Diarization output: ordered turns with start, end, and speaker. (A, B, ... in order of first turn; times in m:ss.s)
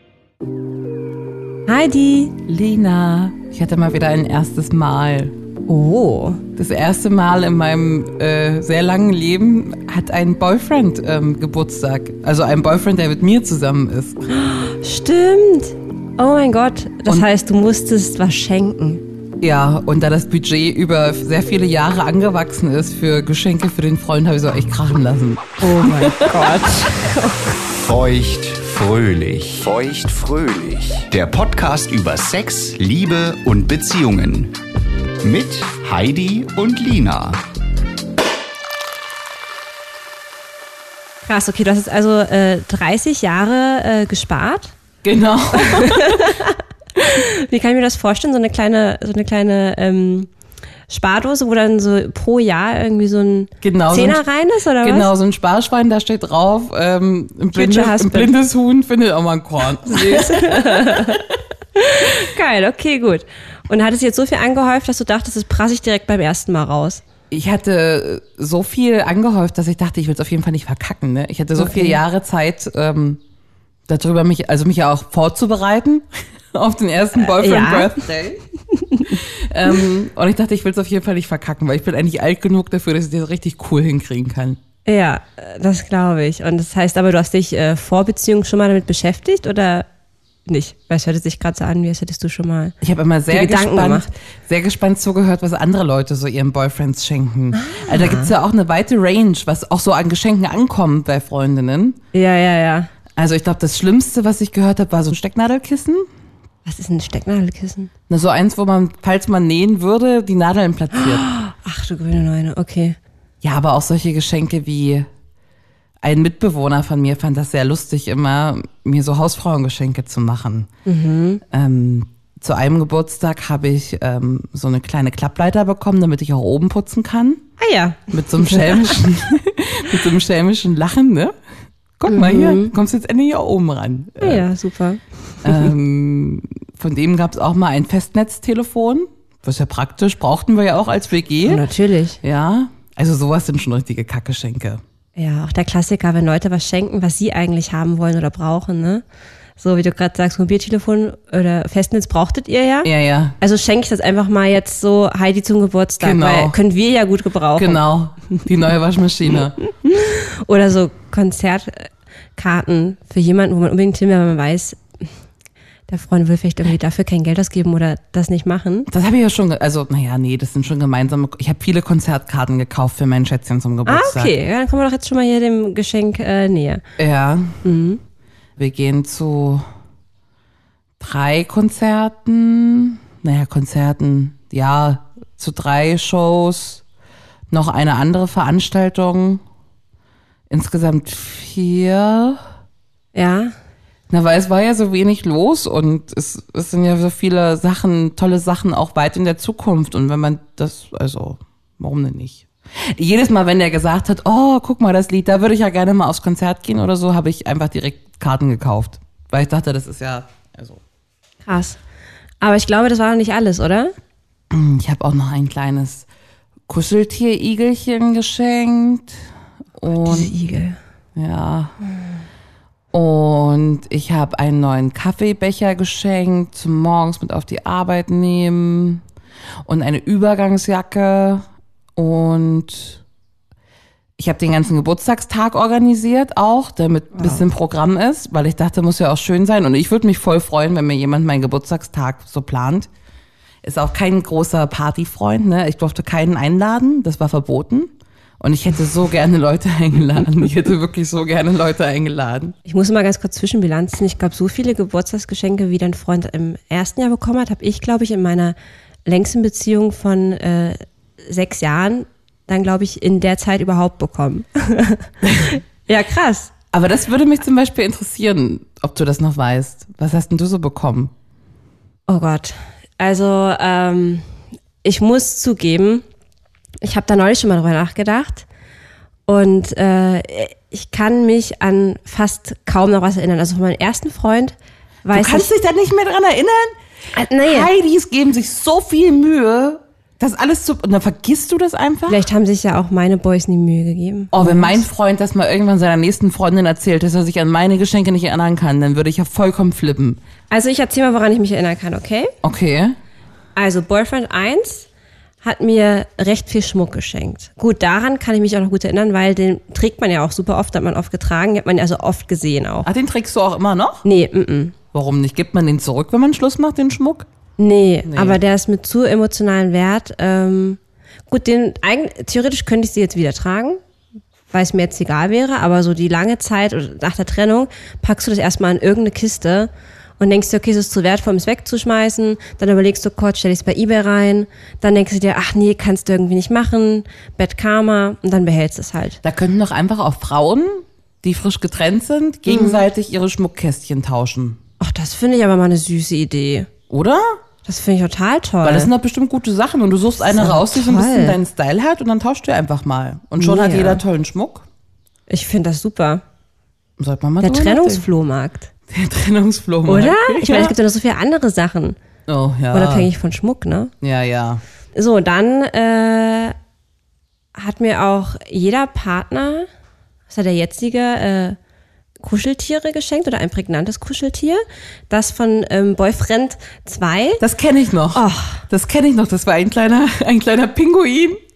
0:01.7-0:02.4 A
0:02.4-0:05.4 B
0:05.7-0:06.4 A
0:06.6-0:14.2 B
0:14.3-0:19.1 A
0:19.4-0:26.6 B
0:25.6-0:27.5 A
0:27.7-0:34.5 C
0:35.2-0:37.4 C
0:41.2-0:44.8 A
0:45.0-0:46.4 B
0:45.5-0:50.3 A
0:50.9-0:55.1 A
0:53.6-0:54.2 B
0:54.8-1:01.2 B
0:57.5-0:58.3 A
0:59.9-1:01.2 A
1:01.8-1:07.0 A
1:07.3-1:13.2 B
1:11.6-1:12.0 A
1:13.9-1:18.4 B
1:17.2-1:18.0 A
1:18.7-1:19.2 A
1:19.1-1:24.6 B
1:24.9-1:29.9 A
1:30.5-1:32.8 A
1:32.8-1:42.0 B
1:33.3-1:34.1 A
1:37.6-1:38.3 A
1:42.1-1:42.9 A
1:43.2-1:46.1 B
1:46.6-1:47.9 A
1:48.1-1:51.3 B
1:50.9-1:53.0 A
1:53.4-1:55.1 B
1:56.0-2:00.7 B
2:00.9-2:01.4 A
2:01.5-2:07.4 B
2:07.6-2:09.0 A
2:08.1-2:11.3 B
2:12.0-2:14.4 B
2:12.1-2:12.7 A
2:14.2-2:15.7 A
2:15.4-2:21.6 B
2:21.4-2:22.2 A
2:22.2-2:24.8 B
2:25.2-2:29.0 A
2:29.6-2:37.8 A
2:32.8-2:33.4 B
2:36.0-2:36.6 B
2:37.6-2:39.6 B
2:39.6-2:44.8 A
2:45.9-2:48.9 A
2:48.9-2:54.3 B
2:53.9-2:56.8 A
2:57.0-2:57.6 B
2:57.6-2:58.0 A
2:58.6-2:59.7 B
3:01.0-3:06.8 B
3:07.5-3:09.4 B
3:10.5-3:12.4 B
3:13.2-3:13.6 A
3:14.1-3:30.8 B
3:31.5-3:31.8 A
3:32.4-3:33.9 A
3:34.5-3:36.1 B
3:36.7-3:39.2 B
3:39.8-3:40.3 B
3:40.0-3:40.8 A
3:41.2-3:41.7 B
3:42.9-3:49.0 B
3:49.6-3:51.4 B
3:52.0-3:53.0 B
3:54.2-4:02.9 B
3:57.2-3:57.4 A
4:03.6-4:12.6 B
4:12.7-4:26.5 A
4:25.2-4:25.5 B
4:26.7-4:31.1 B
4:32.1-4:34.3 A
4:34.8-4:36.0 A
4:36.8-4:38.5 A
4:39.3-4:45.5 A
4:45.1-4:46.8 B
4:47.1-4:47.7 A
4:47.4-4:52.2 B
4:52.1-4:54.8 A
4:54.3-5:00.2 B
5:00.5-5:02.3 A
5:02.4-5:03.0 B
5:03.6-5:04.9 A
5:05.4-5:12.9 A
5:12.8-5:14.0 B
5:14.0-5:14.8 A
5:14.9-5:17.3 B
5:17.6-5:23.8 A
5:18.1-5:18.4 B
5:24.5-5:39.2 A
5:39.2-5:44.6 B
5:42.5-5:42.8 A
5:44.8-5:46.7 A
5:46.9-5:47.4 B
5:47.6-5:48.9 A
5:48.6-5:54.6 B
5:50.3-5:51.4 A
5:53.4-5:54.0 A
5:55.3-5:56.2 A
5:57.0-5:58.0 B
5:57.4-5:58.7 A
5:58.9-6:00.8 B
5:59.9-6:02.0 A
6:02.3-6:03.1 B
6:02.7-6:03.9 A
6:04.0-6:04.6 B
6:05.0-6:06.6 A
6:07.6-6:09.7 A
6:10.3-6:11.6 A
6:12.2-6:17.4 A
6:17.4-6:21.4 B
6:18.1-6:18.6 A